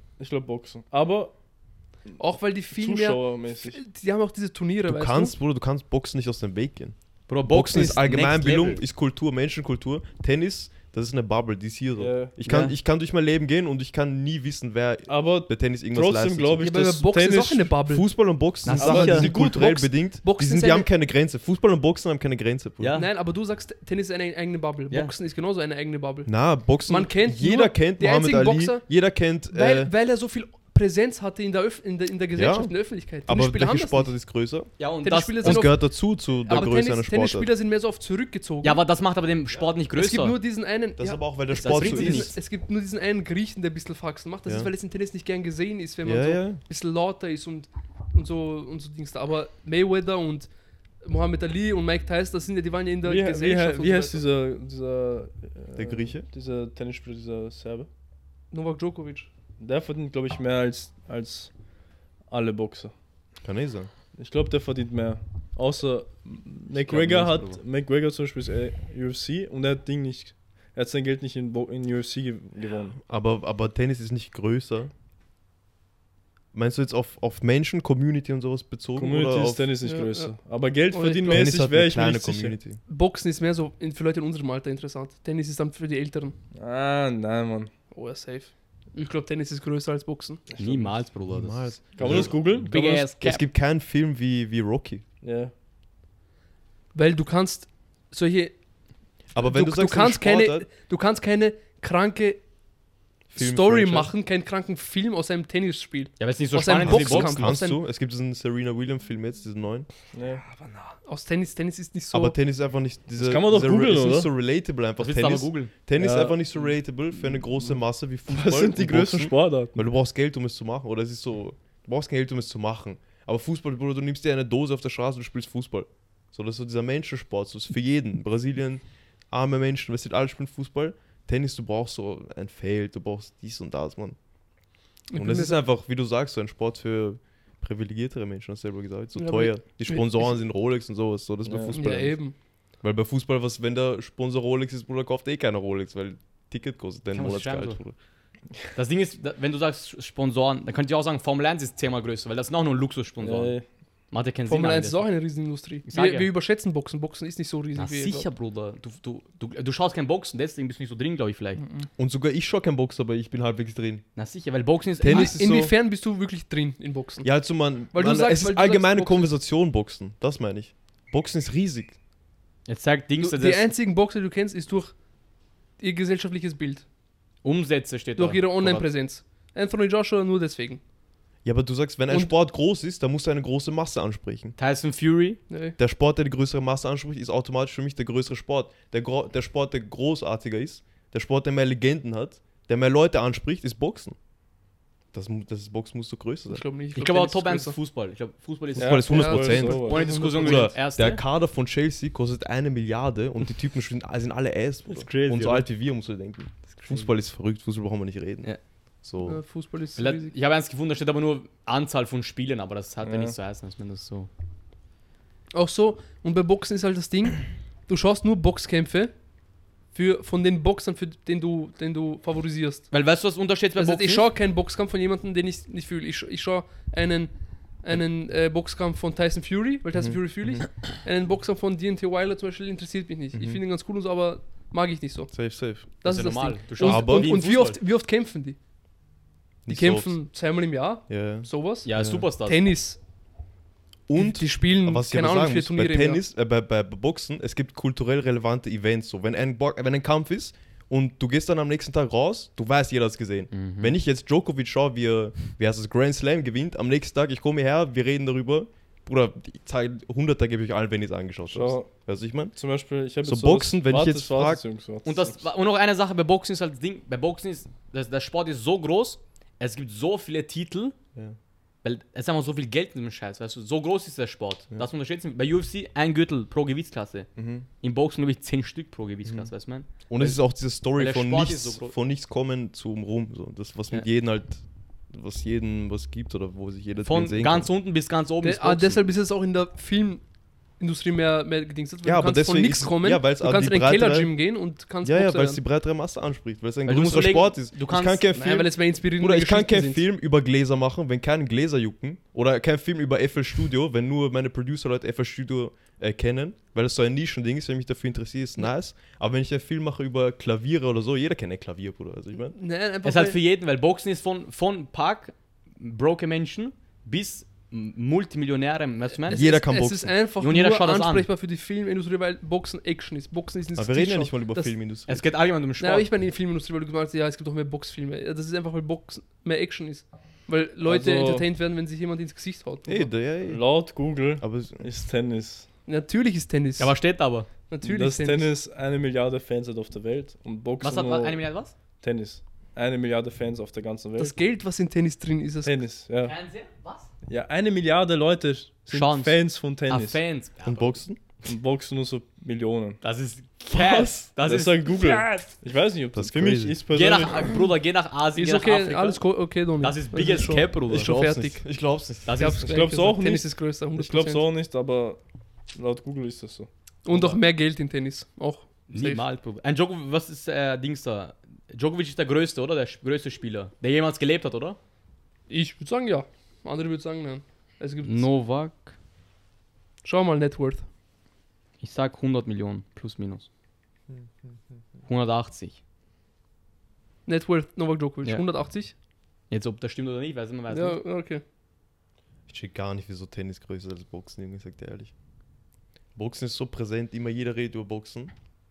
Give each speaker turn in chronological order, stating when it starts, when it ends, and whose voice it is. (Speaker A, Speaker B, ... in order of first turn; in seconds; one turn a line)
Speaker A: 0.2-1.3
Speaker B: 2.2-5.3
Speaker A: 2.7-3.8
Speaker C: 4.9-7.0
Speaker D: 7.3-8.8
Speaker C: 7.5-16.7
Speaker A: 12.0-12.3
Speaker D: 12.4-12.8
Speaker A: 15.1-17.7
Speaker B: 16.6-18.1
Speaker C: 17.9-23.0
Speaker D: 18.6-19.3
Speaker A: 18.8-19.5
Speaker B: 19.0-20.9
Speaker D: 22.8-23.1
Speaker B: 22.9-26.3
Speaker C: 26.3-29.9
Speaker B: 26.9-28.9
Speaker B: 29.5-34.1
Speaker C: 32.4-32.7
Speaker C: 33.2-34.7
Speaker D: 34.8-35.7
Speaker B: 35.0-38.8
Speaker C: 35.4-37.5
Speaker D: 38.6-40.4
Speaker B: 40.0-50.5
Speaker C: 41.0-42.3
Speaker D: 41.6-42.3
Speaker C: 44.5-44.7
Speaker C: 46.0-46.6
Speaker B: 51.0-54.2
Speaker A: 53.0-57.9
Speaker C: 55.8-56.3
Speaker B: 58.5-59.3
Speaker A: 59.6-61.5
Speaker A: 62.3-62.9
Speaker C: 63.4-63.9
Speaker A: 64.2-73.0
Speaker D: 66.7-67.6
Speaker C: 73.0-74.9
Speaker C: 76.5-79.7
Speaker A: 79.0-82.6
Speaker B: 79.8-80.3
Speaker B: 80.9-81.5
Speaker C: 81.3-82.8
Speaker B: 82.9-86.4
Speaker A: 86.5-87.7
Speaker B: 87.9-90.4
Speaker A: 90.5-91.0
Speaker D: 90.6-93.4
Speaker C: 91.3-95.0
Speaker A: 92.0-93.0
Speaker A: 95.2-95.5
Speaker B: 96.9-98.5
Speaker C: 99.3-100.7
Speaker B: 99.4-102.4
Speaker C: 103.3-104.1
Speaker B: 103.3-107.8
Speaker D: 106.2-107.5
Speaker C: 106.8-109.9
Speaker A: 110.1-110.4
Speaker B: 110.4-112.3
Speaker C: 112.1-134.2
Speaker A: 113.2-114.3
Speaker D: 115.0-115.7
Speaker A: 116.0-116.4
Speaker A: 118.3-119.8
Speaker B: 135.1-135.6
Speaker C: 135.2-142.2
Speaker B: 139.2-140.3
Speaker A: 141.4-141.8
Speaker B: 141.7-142.3
Speaker C: 142.8-147.9
Speaker D: 147.1-147.8
Speaker D: 148.7-153.6
Speaker A: 153.2-153.7
Speaker D: 154.1-155.1
Speaker B: 154.5-158.3
Speaker D: 155.9-156.3
Speaker D: 157.8-161.6
Speaker B: 161.6-161.9
Speaker C: 162.0-164.1
Speaker D: 164.2-165.4
Speaker C: 165.0-165.7
Speaker B: 165.1-167.3
Speaker C: 167.2-172.0
Speaker B: 167.9-169.3
Speaker D: 172.7-173.7
Speaker B: 173.2-174.9
Speaker B: 175.8-176.8
Speaker D: 177.4-178.9
Speaker B: 178.2-180.8
Speaker C: 181.4-184.6
Speaker D: 184.6-185.4
Speaker B: 185.5-185.8
Speaker C: 185.8-194.2
Speaker C: 195.1-196.6
Speaker B: 196.5-197.8
Speaker D: 196.9-201.2
Speaker C: 198.8-208.5
Speaker A: 198.8-200.4
Speaker B: 199.1-200.7
Speaker D: 204.9-205.7
Speaker D: 206.7-207.1
Speaker C: 209.0-209.4
Speaker B: 209.2-210.3
Speaker D: 210.0-214.3
Speaker A: 213.0-213.3
Speaker B: 215.5-219.1
Speaker B: 219.9-222.9
Speaker D: 222.9-224.3
Speaker B: 223.8-227.3
Speaker B: 227.8-235.3
Speaker C: 230.0-230.6
Speaker C: 233.3-233.6
Speaker C: 235.3-235.9
Speaker B: 235.9-238.6
Speaker D: 236.1-237.8
Speaker C: 236.8-237.4
Speaker C: 239.7-240.2
Speaker B: 239.7-243.0
Speaker C: 241.1-242.3
Speaker D: 241.8-242.6
Speaker C: 244.1-262.6
Speaker B: 244.2-246.2
Speaker D: 253.5-254.0
Speaker A: 261.5-261.9
Speaker A: 262.6-265.4
Speaker C: 263.2-264.6
Speaker D: 265.1-271.0
Speaker D: 271.8-277.3
Speaker C: 277.4-277.7
Speaker D: 277.8-280.4
Speaker C: 279.2-279.5
Speaker C: 280.1-287.7
Speaker D: 280.9-281.9
Speaker D: 287.1-289.0
Speaker B: 288.4-290.2
Speaker B: 290.8-295.6
Speaker C: 292.0-294.3
Speaker C: 295.0-312.6
Speaker D: 296.9-298.2
Speaker B: 298.3-300.0
Speaker B: 312.5-313.4
Speaker D: 313.0-319.5
Speaker B: 319.3-324.8
Speaker C: 319.3-320.1
Speaker D: 320.4-321.3
Speaker C: 323.8-325.2
Speaker D: 325.1-326.1
Speaker B: 325.8-333.1
Speaker A: 330.9-331.5
Speaker C: 332.9-333.6
Speaker A: 333.4-335.7
Speaker C: 334.4-334.9
Speaker B: 335.9-337.0
Speaker D: 336.8-337.5
Speaker B: 337.7-338.5
Speaker A: 337.8-341.4
Speaker D: 340.8-341.7
Speaker A: 342.0-344.4
Speaker B: 344.2-345.8
Speaker A: 345.6-346.4
Speaker D: 346.2-347.1
Speaker A: 347.3-350.2
Speaker D: 348.9-351.0
Speaker C: 350.6-351.2
Speaker A: 351.4-353.0
Speaker D: 353.0-355.5
Speaker A: 353.7-357.6
Speaker C: 356.1-356.8
Speaker D: 356.9-359.2
Speaker B: 358.4-361.6
Speaker D: 359.8-361.1
Speaker C: 360.9-362.4
Speaker D: 362.2-362.7
Speaker B: 362.4-364.5
Speaker A: 362.6-365.2
Speaker A: 365.7-366.7
Speaker B: 367.1-369.2
Speaker D: 367.1-367.4
Speaker D: 368.9-374.8
Speaker B: 375.5-378.3
Speaker D: 378.1-379.0
Speaker B: 380.0-380.9
Speaker D: 381.8-383.5
Speaker C: 384.1-384.8
Speaker D: 385.1-385.8
Speaker B: 387.3-388.9
Speaker D: 389.5-391.0
Speaker B: 390.7-391.4
Speaker C: 392.5-395.1
Speaker C: 396.2-398.3